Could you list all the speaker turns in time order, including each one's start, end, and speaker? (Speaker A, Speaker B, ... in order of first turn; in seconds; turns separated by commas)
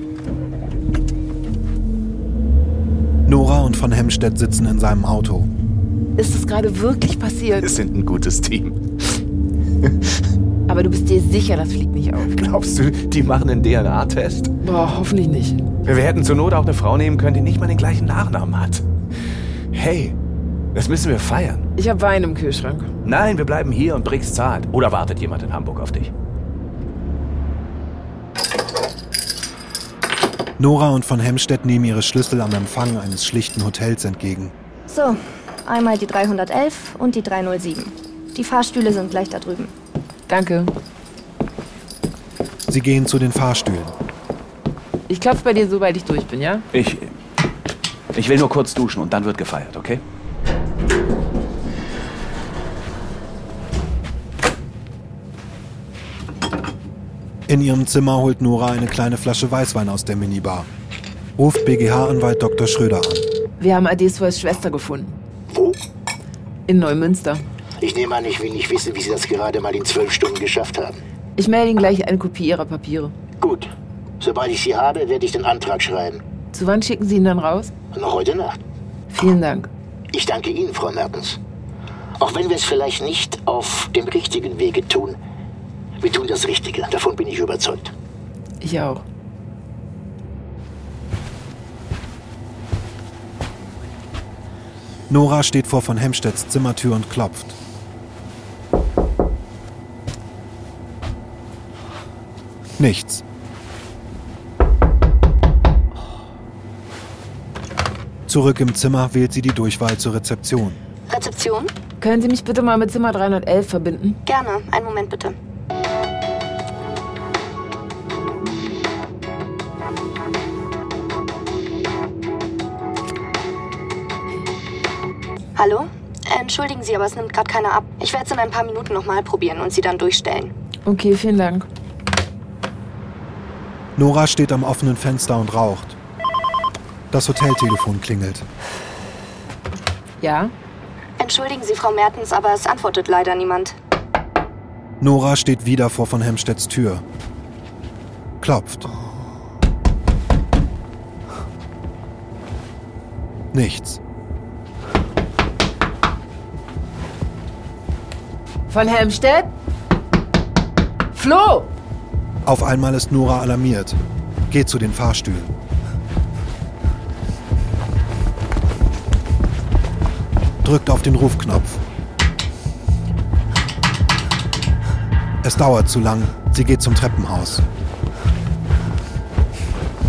Speaker A: 3.2-5.5, Speaker B: 6.2-7.7, Speaker C: 7.6-8.8, Speaker B: 10.7-12.3, Speaker C: 12.3-14.5, Speaker B: 14.6-15.6, Speaker C: 15.8-18.8, Speaker C: 19.7-20.1, Speaker C: 20.7-21.6, Speaker B: 21.8-22.9, Speaker C: 23.0-26.1, Speaker A: 30.6-34.5, Speaker D: 34.9-39.7, Speaker B: 40.3-40.7, Speaker A: 42.7-43.9, Speaker B: 45.1-46.7, Speaker C: 46.7-47.1, Speaker C: 48.1-50.0, Speaker A: 57.5-60.7, Speaker A: 61.4-63.2, Speaker B: 63.6-65.2, Speaker E: 65.5-65.8, Speaker B: 66.7-67.5, Speaker E: 67.8-71.0, Speaker B: 71.4-73.1, Speaker E: 73.4-76.2, Speaker B: 76.5-77.7, Speaker E: 77.9-78.6, Speaker B: 79.1-79.7, Speaker E: 80.1-81.4, Speaker E: 82.2-85.2, Speaker E: 86.0-87.9, Speaker B: 88.6-89.0, Speaker A: 95.1-97.5, Speaker A: 102.8-103.2, Speaker A: 108.3-110.8, Speaker D: 111.1-111.7, Speaker B: 112.0-114.2, Speaker D: 114.2-115.3, Speaker D: 125.5-130.5, Speaker B: 130.8-131.7, Speaker A: 134.0-136.0, Speaker A: 137.1-138.4, Speaker B: 140.2-140.5, Speaker D: 141.2-143.7, Speaker A: 145.0-147.0, Speaker A: 148.4-148.9, Speaker A: 153.5-154.0, Speaker B: 158.7-159.5, Speaker B: 161.1-161.7, Speaker A: 162.4-165.5, Speaker A: 170.6-171.8, Speaker A: 175.4-177.6